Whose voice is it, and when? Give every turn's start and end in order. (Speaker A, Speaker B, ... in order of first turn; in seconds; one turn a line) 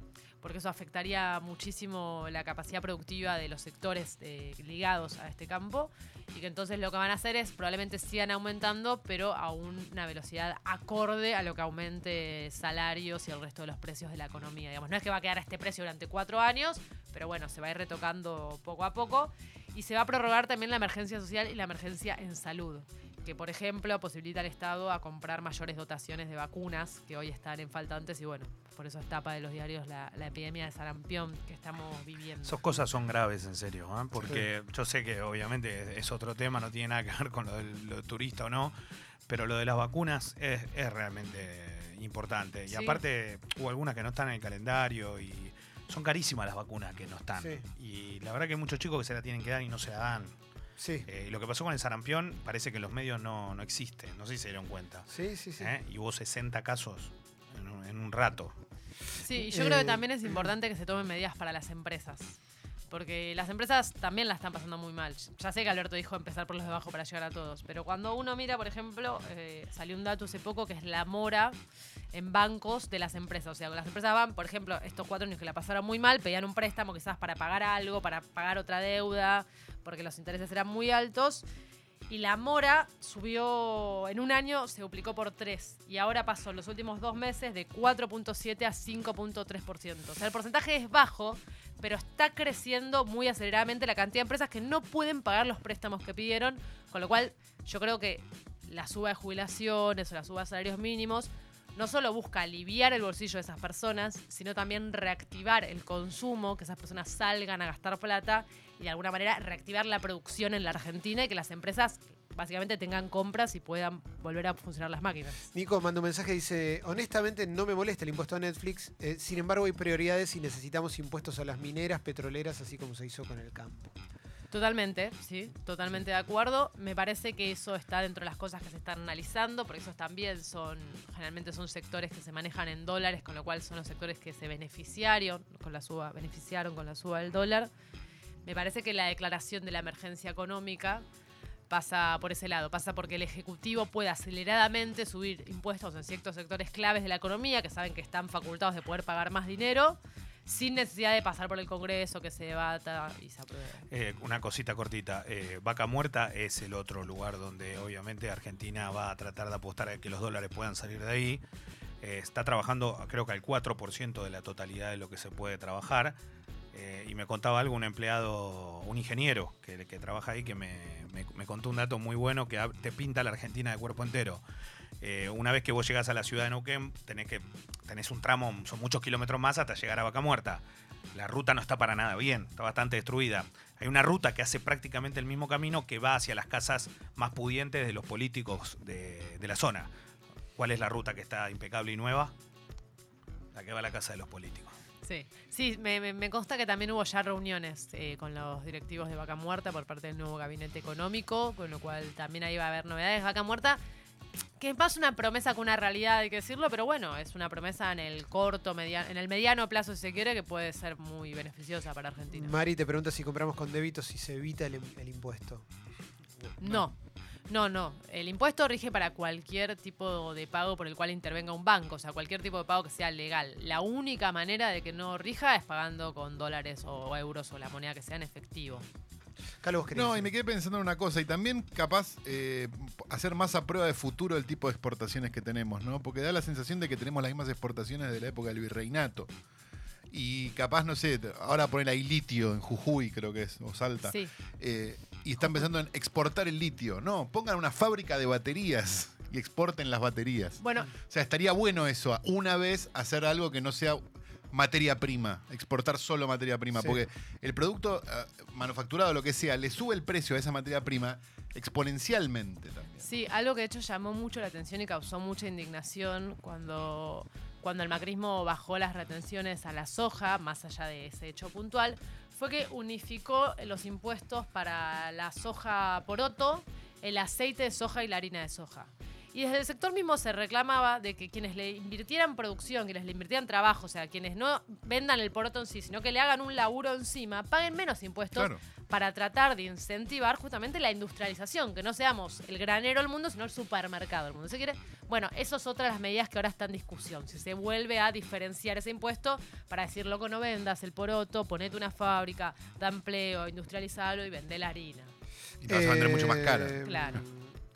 Speaker A: 0.4-32.7
Speaker B: 32.4-38.8
Speaker B: 39.3-50.3
Speaker A: 42.7-43.0
Speaker C: 47.4-47.6
Speaker C: 50.8-51.1
Speaker B: 51.1-58.5
Speaker C: 55.1-55.7
Speaker A: 59.2-62.4
Speaker C: 59.3-60.5
Speaker A: 62.9-71.6
Speaker A: 72.1-81.5
Speaker A: 82.1-115.4
Speaker C: 115.5-123.9
Speaker A: 124.5-137.7
Speaker A: 138.4-141.1
Speaker A: 141.7-153.9
Speaker B: 153.9-161.4
Speaker B: 162.0-166.2
Speaker B: 166.7-174.4
Speaker B: 175.0-180.6
Speaker B: 181.1-189.9
Speaker B: 190.6-192.3
Speaker B: 193.5-194.8
Speaker A: 195.0-203.8
Speaker A: 204.6-212.6
Speaker C: 212.3-215.7
Speaker A: 216.6-216.9
Speaker A: 217.5-228.9
Speaker C: 229.6-230.3
Speaker D: 229.9-239.3
Speaker D: 240.1-263.1
Speaker A: 244.1-244.3
Speaker A: 250.6-250.9
Speaker C: 256.8-257.0
Speaker A: 263.0-305.1
Speaker D: 288.4-288.6
Speaker D: 305.6-307.2
Speaker C: 305.7-307.5
Speaker A: 306.8-307.2